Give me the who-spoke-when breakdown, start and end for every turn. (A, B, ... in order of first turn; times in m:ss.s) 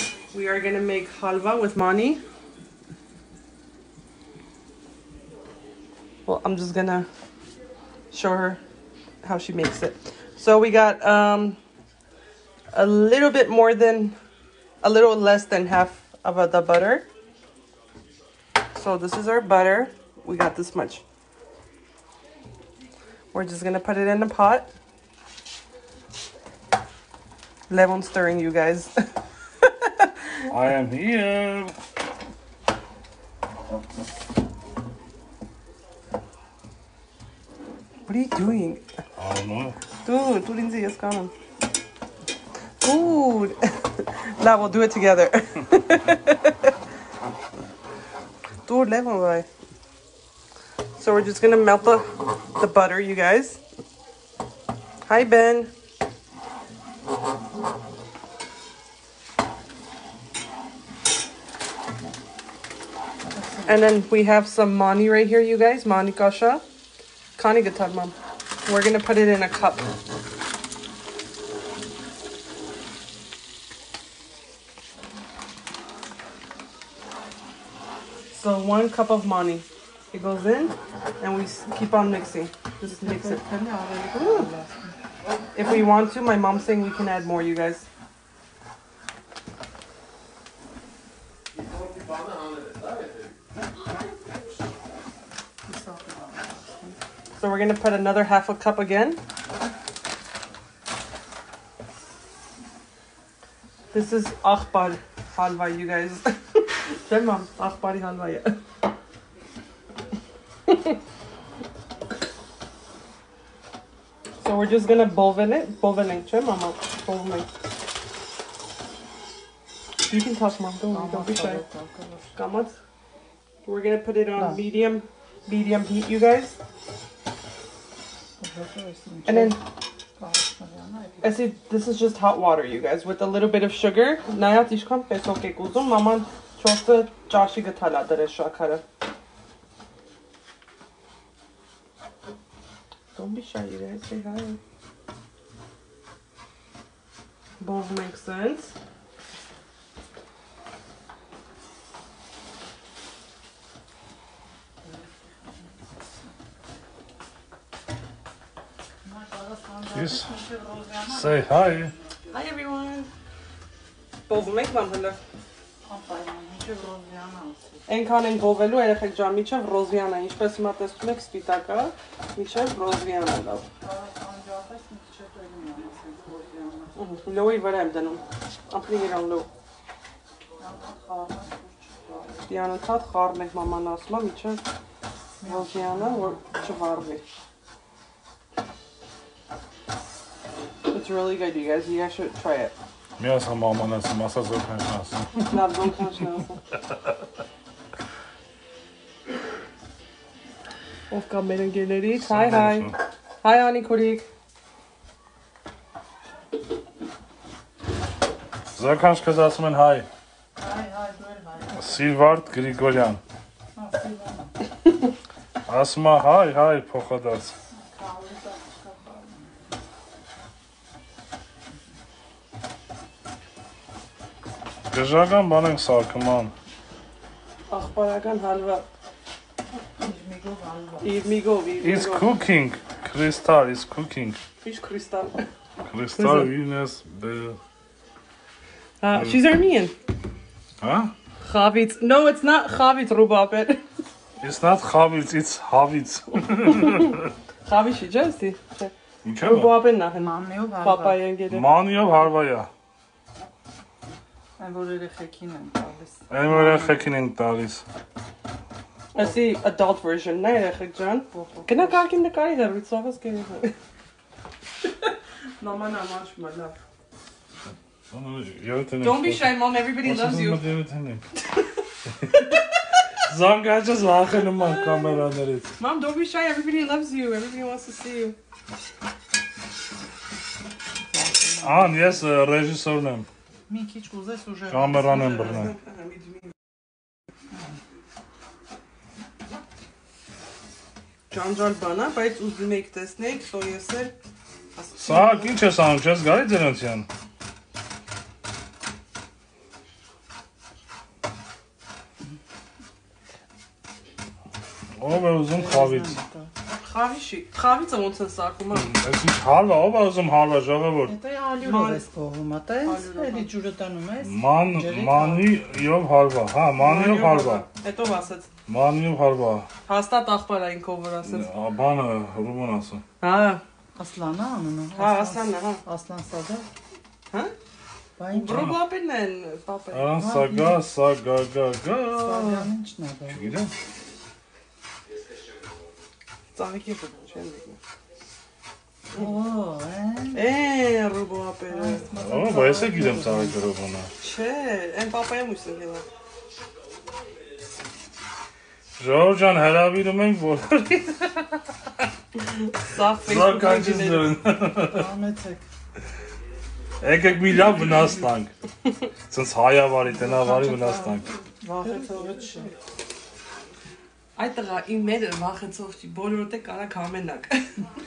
0:00.3-0:02.2 A
0:06.3-0:07.1 A
0:08.1-0:08.6 A
0:09.2-0:11.6 A
0:12.7-0:14.2 A
0:14.8-0:17.1 A
0:18.7-0:21.0 A
0:23.3-0:24.7 A
0:27.7-0:28.9 A
0:29.6-0:30.1 A
0:30.5-0:31.8 B
0:38.1-0:38.8 A
0:39.2-0:39.8 B
0:40.0-0:41.3 A
0:42.8-0:46.7 A
0:48.7-0:49.5 A
0:51.0-0:53.6 A
0:55.1-0:55.7 A
1:03.3-1:03.8 C
1:03.7-1:06.6 A
1:07.4-1:09.9 A
1:18.3-1:23.4 A
1:22.8-1:24.9 C
1:24.2-1:24.5 A
1:25.6-1:27.8 A
1:35.6-1:37.0 C
1:37.4-1:39.2 A
1:43.9-1:48.6 A
1:50.7-1:51.0 A
1:54.4-1:57.5 A
2:00.1-2:01.6 A
2:00.9-2:02.3 C
2:02.4-2:02.7 A
2:03.6-2:06.6 A
2:08.4-2:09.6 C
2:09.3-2:09.6 A
2:10.2-2:11.4 C
2:11.2-2:18.8 A
2:23.2-2:24.6 A
2:27.6-2:28.7 A
2:34.8-2:35.7 C
2:39.0-2:42.3 C
2:39.9-2:40.3 B
2:41.0-2:41.9 B
2:42.3-2:43.1 A
2:44.3-2:45.2 A
2:45.8-2:47.8 C
2:47.9-2:53.7 A
2:53.8-2:57.0 C
2:57.0-2:59.5 A
3:00.6-3:02.5 C
3:02.5-3:04.6 A
3:05.4-3:06.7 C
3:05.4-3:07.2 A
3:10.9-3:12.7 A
3:13.2-3:15.5 B
3:15.4-3:16.6 A
3:21.1-3:24.3 A
3:22.1-3:23.0 B
3:28.8-3:30.1 B
3:30.6-3:32.1 C
3:31.8-3:33.2 B
3:33.7-3:34.6 C
3:35.7-3:37.5 B
3:37.7-3:39.5 C
3:44.9-3:46.5 B
3:47.7-3:48.9 A
3:50.0-3:51.1 C
3:51.0-3:52.3 A
3:51.8-3:54.4 B
3:54.6-3:55.4 A
3:55.8-3:57.6 B
3:56.2-3:56.5 A
3:59.0-3:59.9 A
3:59.1-3:59.4 B
4:00.8-4:01.1 B
4:01.4-4:03.8 A
4:04.4-4:07.3 B
4:06.6-4:11.7 A
4:09.2-4:09.8 B
4:10.1-4:11.2 C
4:11.5-4:12.7 B
4:14.6-4:17.1 C
4:16.3-4:17.8 B
4:19.1-4:23.7 A
4:21.3-4:22.0 C
4:25.0-4:26.8 A
4:28.1-4:31.2 B
4:29.0-4:30.6 A
4:33.2-4:35.7 B
4:34.5-4:35.2 A
4:35.8-4:38.4 A
4:41.1-4:42.2 C
4:41.6-4:43.3 B
4:43.7-4:45.7 C
4:44.7-4:45.7 B
4:45.1-4:46.5 A
4:51.3-4:54.1 A
4:54.8-4:55.6 A
4:55.0-4:57.1 B
5:05.0-5:06.2 B
5:05.5-5:06.5 C
5:06.7-5:09.0 A
5:08.7-5:11.2 B
5:11.1-5:15.5 C
5:11.6-5:12.0 A
5:12.8-5:13.5 A
5:14.2-5:17.7 B
5:16.8-5:18.5 A
5:18.7-5:19.7 B
5:19.9-5:21.5 A
5:21.2-5:23.0 B
5:23.2-5:23.6 A
5:24.0-5:26.7 C
5:25.0-5:25.8 A
5:28.2-5:28.7 C
5:28.3-5:30.1 A
5:28.5-5:28.8 B
5:29.9-5:32.7 B
5:30.2-5:30.8 C
5:32.1-5:33.4 C
5:33.3-5:33.7 B
5:36.5-5:37.8 A
5:39.1-5:40.5 C
5:40.3-5:42.0 A
5:41.7-5:43.6 C
5:42.2-5:44.1 B
5:44.2-5:46.1 A
5:49.0-5:51.6 B
5:52.5-5:54.3 A
5:53.2-5:55.1 B
5:54.9-5:55.6 C
5:57.0-5:58.5 B
5:59.3-6:01.3 B
6:00.1-6:02.7 C
6:01.8-6:02.7 A
6:04.4-6:07.8 A